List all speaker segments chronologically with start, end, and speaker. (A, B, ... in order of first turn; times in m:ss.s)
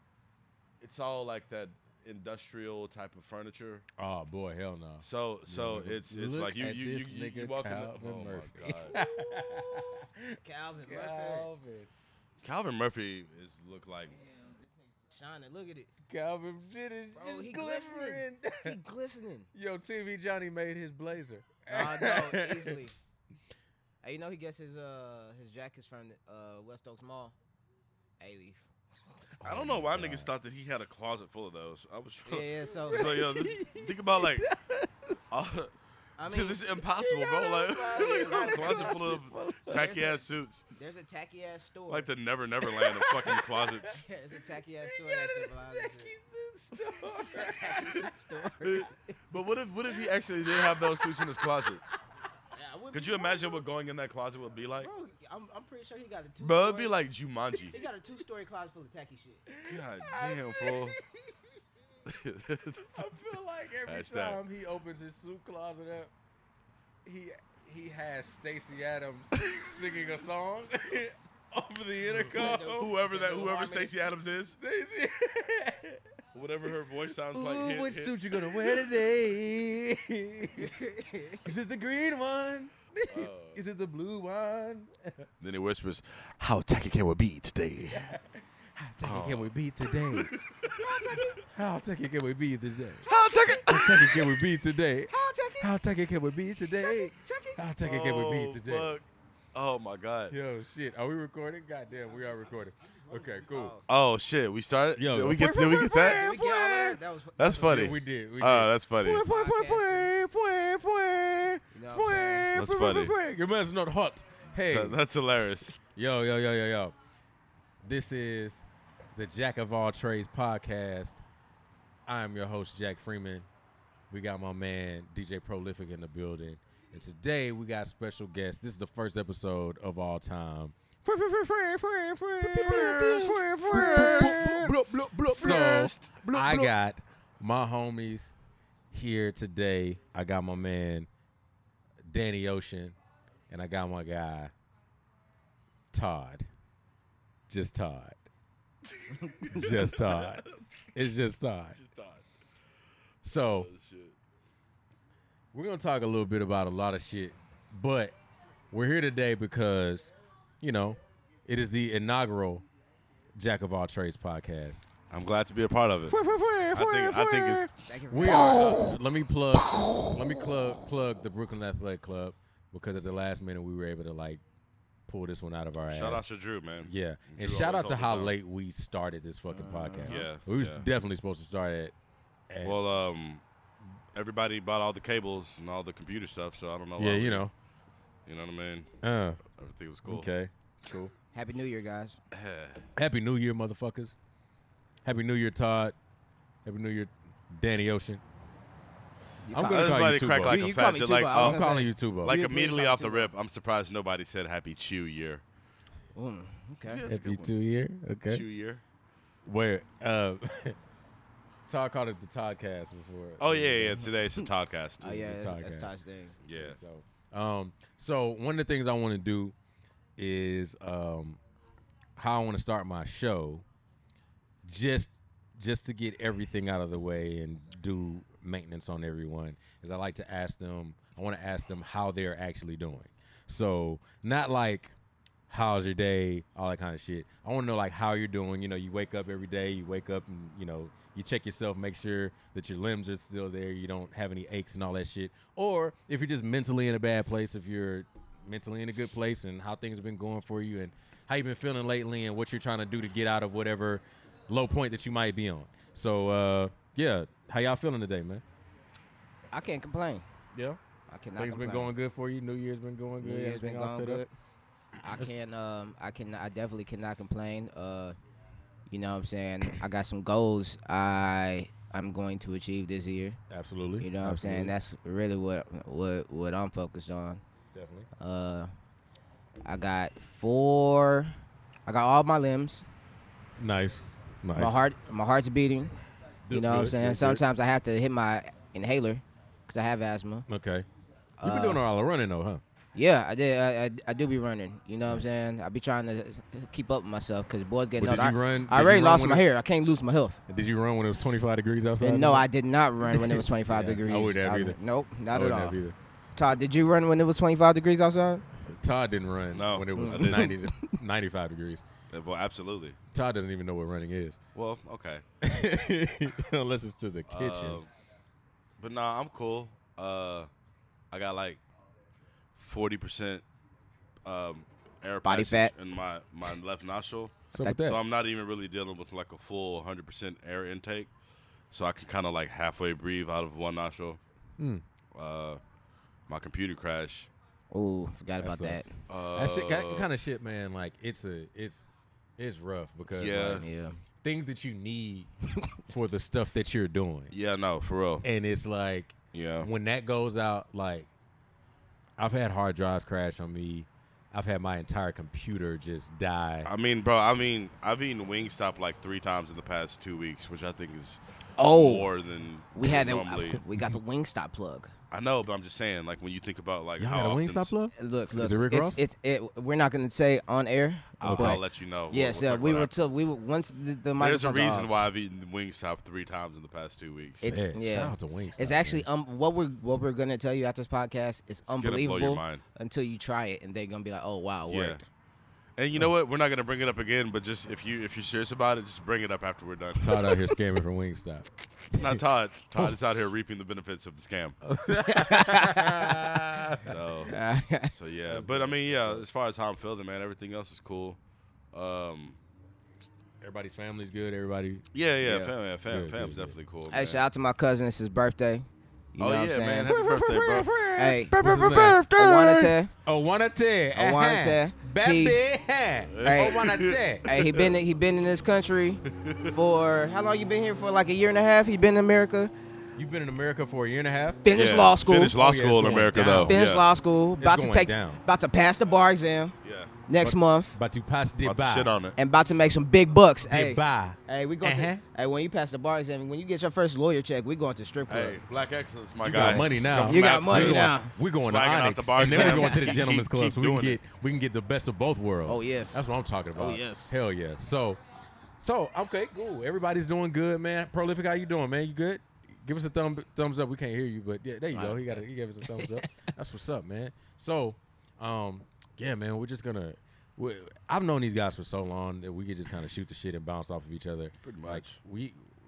0:00.8-0:03.8 A
0:04.0-0:11.9 B
0:05.0-0:09.0 A
0:08.9-0:09.9 C
0:10.4-0:11.5 C
0:12.4-0:14.2 A
0:15.1-0:15.9 C
0:16.1-0:18.8 B
0:17.1-0:19.5 C
0:19.5-0:22.8 B
0:21.7-0:22.9 C
0:24.0-0:27.3 C
0:28.2-0:28.7 C
0:29.4-0:34.5 A
0:29.4-0:30.3 B
0:32.2-0:33.2 C
0:32.9-0:35.3 B
0:35.3-0:35.7 A
0:36.2-0:36.8 C
0:36.2-0:40.6 A
0:36.9-0:39.8 B
0:37.9-0:39.1 C
0:39.7-0:42.1 C
0:41.9-0:44.0 A
0:42.6-0:44.0 B
0:44.0-0:46.1 C
0:44.8-0:48.4 B
0:47.1-0:48.9 C
0:48.6-0:51.8 A
0:49.9-0:51.5 B
0:52.5-0:53.6 C
0:52.9-0:54.9 A
0:54.8-0:56.9 C
0:56.4-0:57.8 A
0:57.7-0:59.4 C
0:59.5-1:01.1 B
0:59.6-1:01.0 A
1:02.0-1:03.0 A
1:02.9-1:06.1 B
1:03.8-1:04.4 A
1:07.0-1:12.9 B
1:12.3-1:13.9 C
1:12.4-1:14.6 A
1:14.6-1:16.0 B
1:16.3-1:18.2 A
1:17.3-1:20.8 B
1:20.6-1:21.4 C
1:21.4-1:25.2 B
1:23.1-1:23.6 A
1:25.4-1:28.1 A
1:27.9-1:30.3 B
1:29.0-1:30.8 A
1:30.8-1:31.5 C
1:31.5-1:33.0 B
1:33.0-1:34.2 A
1:33.7-1:38.9 B
1:35.1-1:35.7 C
1:36.7-1:37.6 C
1:37.8-1:40.4 A
1:40.3-1:43.7 B
1:43.5-1:43.8 C
1:43.9-1:46.5 A
1:44.9-1:47.0 B
1:45.9-1:47.9 C
1:47.4-1:49.2 A
1:47.6-1:55.0 B
1:49.2-1:50.1 C
1:51.7-1:52.5 C
1:52.5-1:53.1 A
1:54.6-1:55.8 A
1:55.8-1:56.9 B
1:57.8-1:58.6 B
1:59.1-2:01.2 B
2:02.1-2:03.5 B
2:04.1-2:18.3 B
2:12.4-2:16.7 A
2:13.9-2:14.2 C
2:18.9-2:21.1 B
2:22.0-2:23.0 B
2:23.5-2:24.5 B
2:25.9-2:26.5 B
2:27.5-2:28.2 B
2:28.9-2:30.5 A
2:29.4-2:31.8 B
2:31.7-2:32.2 A
2:33.2-2:33.7 B
2:33.5-2:34.2 A
2:35.5-2:38.2 B
2:38.7-2:42.6 B
2:43.4-2:44.9 B
2:45.1-2:46.2 A
2:46.1-2:54.4 B
2:46.7-2:47.7 A
2:47.8-2:48.9 C
2:48.3-2:48.6 A
2:55.1-2:56.2 B
2:55.9-2:58.4 A
2:56.8-3:01.9 B
2:59.5-3:00.2 C
3:00.0-3:00.8 A
3:02.5-3:02.8 B
3:02.6-3:03.4 A
3:04.1-3:07.5 A
3:07.0-3:07.5 B
3:08.2-3:08.9 A
3:09.0-3:09.4 B
3:09.5-3:10.3 A
3:10.0-3:11.1 B
3:11.3-3:12.2 C
3:12.3-3:12.8 A
3:13.0-3:14.2 B
3:15.0-3:16.0 B
3:16.6-3:18.2 B
3:19.4-3:23.3 C
3:19.5-3:20.6 B
3:19.7-3:21.6 A
3:21.3-3:22.4 B
3:22.2-3:25.4 A
3:26.1-3:27.0 C
3:26.8-3:27.5 A
3:27.1-3:28.4 B
3:28.3-3:28.8 A
3:29.4-3:30.8 B
3:31.7-3:34.1 B
3:33.4-3:35.1 A
3:35.0-3:36.4 C
3:35.0-3:35.9 B
3:36.4-3:36.8 A
3:36.5-3:39.5 B
3:40.2-3:41.4 B
3:42.2-3:43.6 B
3:44.6-3:54.9 B
3:55.5-4:18.4 B
4:19.5-4:20.2 C
4:20.5-4:20.8 B
4:21.1-4:21.9 C
4:21.4-4:24.2 B
4:23.2-4:24.3 C
4:25.0-4:28.2 C
4:28.9-4:33.4 C
4:33.5-4:34.7 B
4:34.0-4:37.4 C
4:37.7-4:38.1 B
4:38.2-4:38.7 C
4:39.6-4:41.3 C
4:41.9-4:42.8 C
4:43.6-4:44.8 B
4:44.6-4:45.9 C
4:46.4-4:47.4 B
4:46.5-4:50.4 C
4:50.5-4:50.9 B
4:51.4-4:51.8 C
4:51.4-4:52.6 B
4:52.9-5:00.4 C
4:58.0-4:59.4 B
5:00.5-5:02.5 B
5:02.0-5:05.8 C
5:03.1-5:04.8 B
5:05.3-5:06.6 B
5:06.4-5:08.4 C
5:08.7-5:11.8 B
5:09.5-5:10.5 A
5:10.0-5:11.0 C
5:12.1-5:13.0 A
5:13.1-5:14.4 B
5:14.5-5:15.2 A
5:15.4-5:17.8 B
5:17.3-5:17.9 A
5:18.8-5:20.5 A
5:21.1-5:21.6 A
5:22.5-5:23.4 A
5:24.2-5:31.1 A
5:25.2-5:25.7 C
5:27.5-5:28.0 B
5:31.7-5:34.2 A
5:34.6-5:34.8 B
5:35.1-5:35.6 A
5:36.3-5:37.3 A
5:37.7-5:38.9 C
5:38.4-5:43.6 B
5:39.1-5:40.1 A
5:43.1-5:43.6 A
5:43.5-5:44.0 C
5:44.2-5:45.3 B
5:45.9-5:47.3 B
5:47.3-5:48.2 A
5:48.2-5:51.1 B
5:49.3-5:49.7 A
5:52.2-5:56.7 B
5:56.6-6:03.6 A
6:01.6-6:02.1 C
6:02.7-6:04.9 C
6:05.1-6:07.7 A
6:07.0-6:09.0 B
6:08.0-6:14.9 C
6:11.2-6:13.2 A
6:11.2-6:11.6 B
6:14.2-6:17.5 A
6:17.4-6:25.0 C
6:17.4-6:19.0 B
6:21.7-6:22.6 A
6:24.7-6:25.0 A
6:25.8-6:30.4 A
6:30.0-6:32.2 B
6:31.9-6:34.6 A
6:34.6-6:37.0 B
6:35.1-6:36.2 C
6:36.8-6:37.3 A
6:37.3-6:37.9 C
6:37.9-6:41.2 A
6:38.3-6:39.2 B
6:41.7-6:42.4 A
6:43.4-6:44.8 B
6:44.9-6:47.2 A
6:45.2-6:45.5 C
6:45.9-6:46.6 B
6:46.9-6:49.9 C
6:49.2-6:50.7 A
6:49.8-6:57.3 B
6:51.0-6:52.9 C
6:51.3-6:52.5 A
6:53.9-6:55.4 C
6:56.1-6:57.8 A
6:56.2-6:56.6 C
6:57.2-7:02.5 C
6:59.1-6:59.5 A
7:03.0-7:04.6 B
7:04.4-7:05.4 C
7:04.5-7:06.8 A
7:05.2-7:06.6 B
7:06.2-7:09.5 C
7:07.4-7:08.2 B
7:09.6-7:09.9 A
7:10.1-7:10.8 C
7:10.2-7:11.9 B
7:11.4-7:12.2 A
7:12.2-7:18.4 C
7:13.5-7:15.0 B
7:18.1-7:24.0 A
7:19.2-7:28.0 B
7:19.3-7:21.1 C
7:22.3-7:23.0 C
7:25.4-7:26.0 C
7:26.5-7:27.1 C
7:28.6-7:45.5 B
7:34.7-7:35.0 C
7:35.6-7:36.0 C
7:44.4-7:45.0 A